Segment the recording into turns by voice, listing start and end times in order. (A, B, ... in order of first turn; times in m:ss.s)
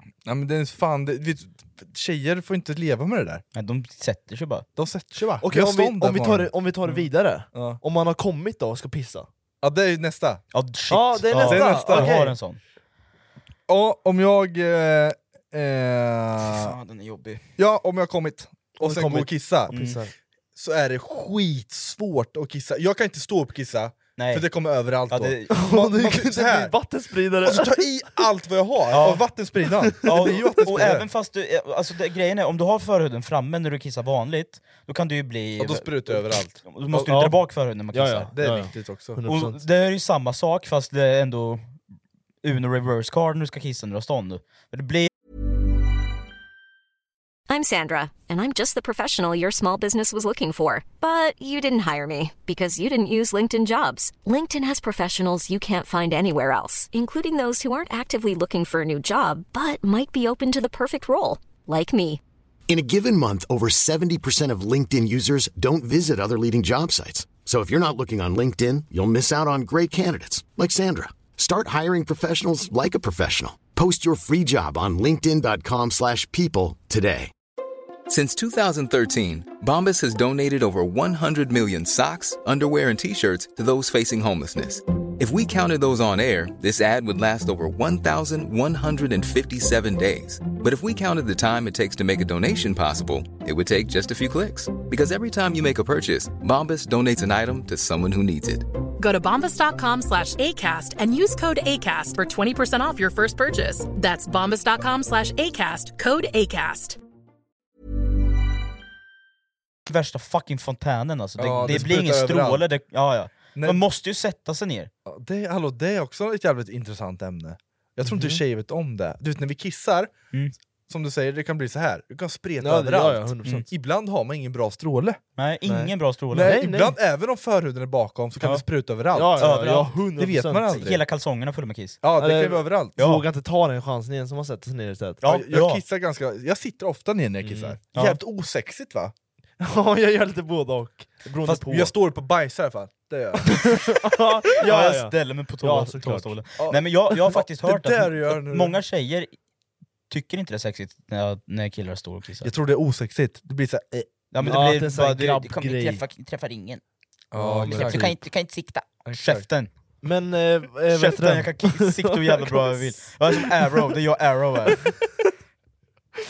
0:00.2-0:03.4 A
0:03.5-0:04.6 B
0:04.8-0:07.8 A
0:05.4-0:09.3 C
0:09.6-0:10.4 A
0:10.5-0:12.6 B
0:10.9-0:12.4 C
0:11.3-0:12.2 A
0:13.7-0:16.7 A
0:16.4-0:17.4 B
0:17.6-0:19.7 A
0:18.8-0:20.1 C
0:19.7-0:20.0 B
0:20.5-0:26.7 A
0:24.2-0:24.5 B
0:25.1-0:25.5 B
0:25.5-0:27.8 C
0:27.4-0:31.1 A
0:28.9-0:29.2 B
0:29.8-0:30.6 C
0:30.0-0:38.3 B
0:35.6-0:37.2 A
0:37.0-0:37.4 C
0:37.9-0:39.6 C
0:38.3-0:39.2 A
0:39.3-0:41.7 B
0:42.4-0:45.1 B
0:47.5-1:02.2 D
1:02.7-1:17.3 E
1:18.1-1:38.7 F
1:39.0-1:47.0 G
1:49.9-1:54.9 B
1:51.4-1:52.6 A
1:53.6-1:53.8 A
1:55.0-2:00.1 A
1:58.0-1:58.4 C
2:00.9-2:05.2 A
2:02.6-2:03.6 C
2:05.4-2:06.6 B
2:05.6-2:07.0 C
2:06.3-2:11.0 A
2:09.1-2:10.8 C
2:09.4-2:09.9 B
2:10.7-2:12.0 B
2:12.0-2:13.0 A
2:12.2-2:15.2 C
2:13.0-2:13.2 B
2:15.2-2:15.8 B
2:15.2-2:19.1 A
2:17.4-2:17.8 C
2:19.6-2:21.9 C
2:21.5-2:23.8 A
2:23.4-2:26.3 C
2:24.6-2:29.3 B
2:26.6-2:28.8 A
2:30.1-2:32.5 B
2:32.4-2:34.1 A
2:34.3-2:36.8 B
2:34.4-2:36.0 C
2:37.3-2:38.1 A
2:37.3-2:38.1 C
2:37.6-2:39.7 B
2:39.0-2:39.4 A
2:40.0-2:43.9 C
2:40.9-2:44.8 B
2:44.7-2:44.9 C